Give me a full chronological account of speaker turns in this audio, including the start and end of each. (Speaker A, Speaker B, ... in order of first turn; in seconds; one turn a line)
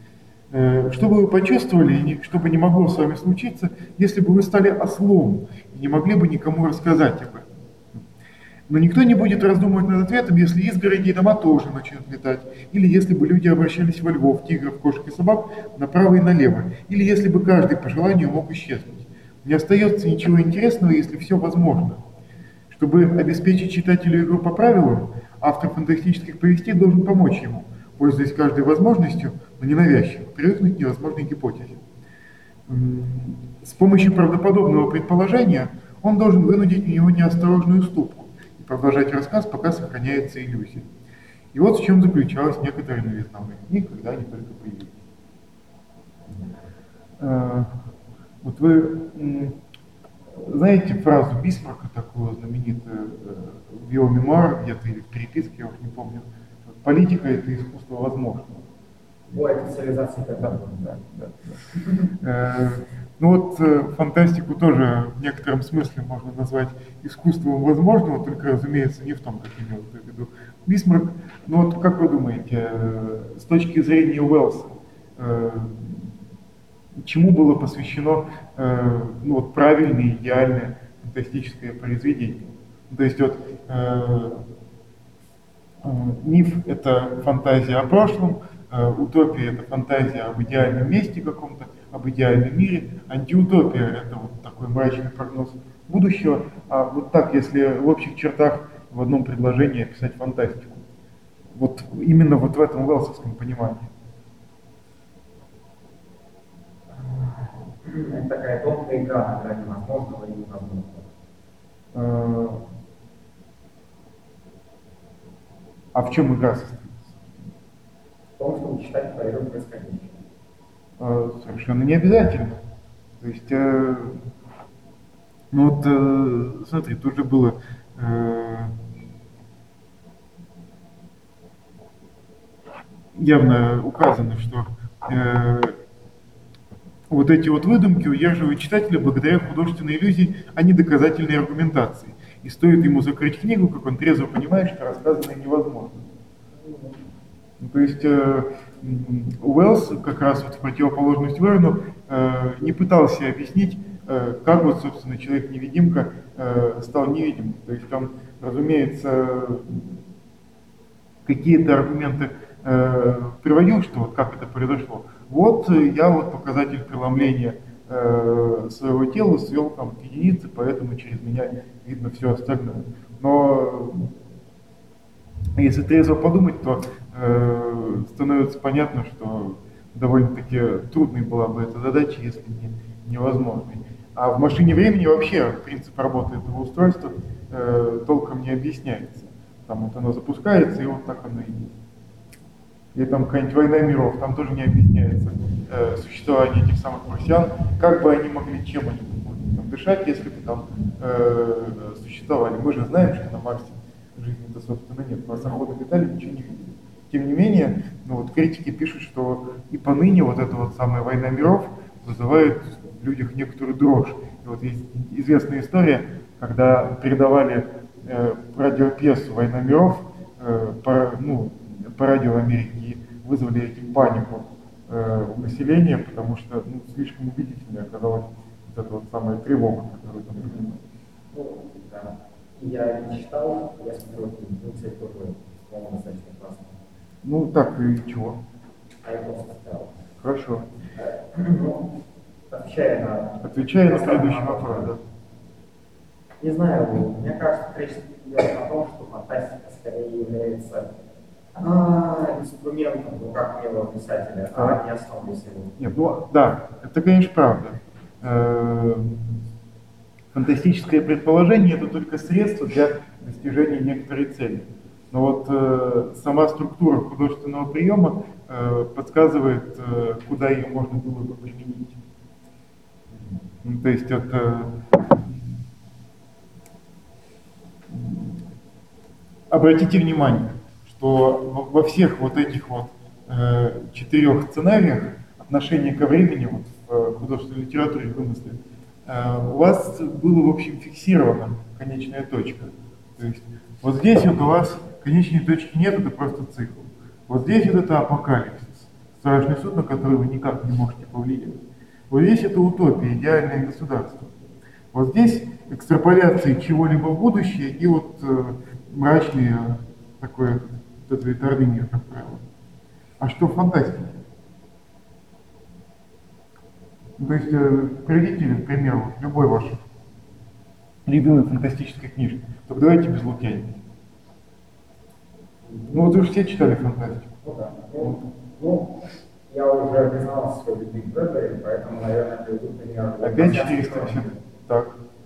Speaker A: 0.5-7.5
Speaker A: 8.7-22.0
Speaker A: 22.7-31.8
Speaker A: 32.7-40.9
Speaker A: 41.5-45.0
Speaker A: 47.2-47.7
Speaker A: 48.4-49.6
Speaker A: 50.4-58.7
Speaker B: 59.3-61.0
Speaker A: 60.8-61.6
Speaker A: 62.2-76.1
Speaker A: 77.0-84.4
Speaker A: 85.8-100.8
Speaker A: 101.5-103.9
Speaker B: 107.0-111.1
Speaker A: 111.9-112.6
Speaker A: 116.0-117.2
Speaker B: 118.4-120.2
Speaker A: 121.0-122.6
Speaker A: 123.2-124.2
Speaker A: 125.5-128.8
Speaker A: 133.2-135.8
Speaker A: 137.1-146.1
Speaker B: 146.6-147.0
Speaker A: 147.6-160.0
Speaker A: 161.2-174.1
Speaker A: 175.6-191.8
Speaker A: 192.9-230.8
Speaker B: 230.4-230.7
Speaker B: 231.3-236.8
Speaker A: 237.2-238.4
Speaker B: 239.0-239.9
Speaker A: 240.2-240.7
Speaker B: 241.0-241.9
Speaker B: 242.5-244.9
Speaker A: 243.4-245.0
Speaker B: 246.4-250.9
Speaker B: 251.6-255.8
Speaker A: 254.5-254.8
Speaker A: 255.8-259.4
Speaker A: 260.3-272.0
Speaker B: 273.1-273.4
Speaker A: 273.6-275.5
Speaker A: 277.9-278.4
Speaker A: 279.5-304.3
Speaker A: 304.9-312.4
Speaker A: 313.2-314.2
Speaker A: 317.2-319.8
Speaker A: 321.1-323.8
Speaker B: 325.7-326.0
Speaker A: 325.9-327.3
Speaker B: 327.4-334.4
Speaker A: 333.2-334.9